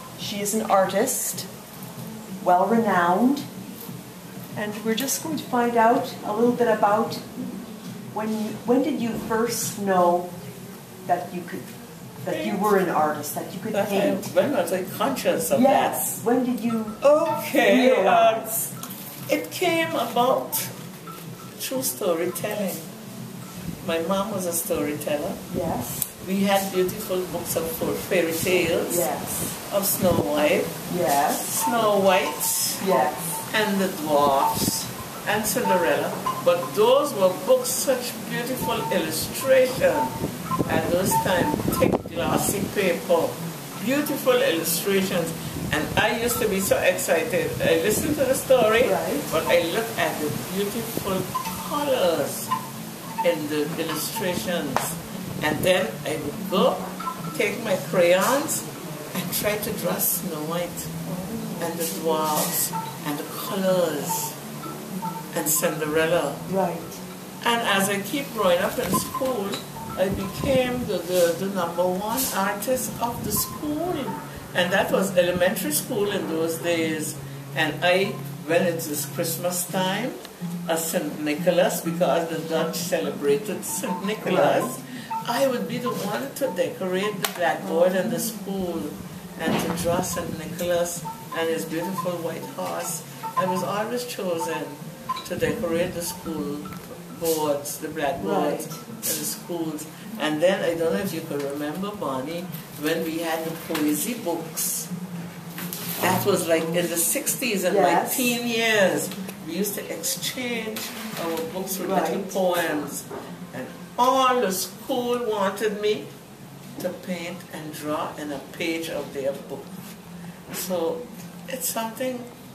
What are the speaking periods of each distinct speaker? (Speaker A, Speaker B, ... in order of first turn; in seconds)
Speaker A: 0.2-1.5, 2.4-3.5, 4.5-7.2, 8.1-10.3, 11.1-11.7, 12.2-14.2, 15.5-17.0, 17.6-18.7, 25.5-26.1, 28.9-29.6, 30.9-31.5, 32.8-33.4, 48.8-49.3, 61.1-62.0, 66.5-67.0, 84.2-84.7, 98.2-98.8, 107.7-108.4, 111.8-112.4
Speaker B: 12.3-12.8, 13.7-16.1, 17.0-18.5, 19.3-20.7, 21.6-22.9, 23.8-25.4, 26.2-29.1, 29.6-30.8, 31.3-32.8, 33.5-52.5, 53.2-61.0, 61.6-64.4, 65.3-66.4, 67.4-104.9, 106.0-116.1, 116.8-119.7, 120.5-122.3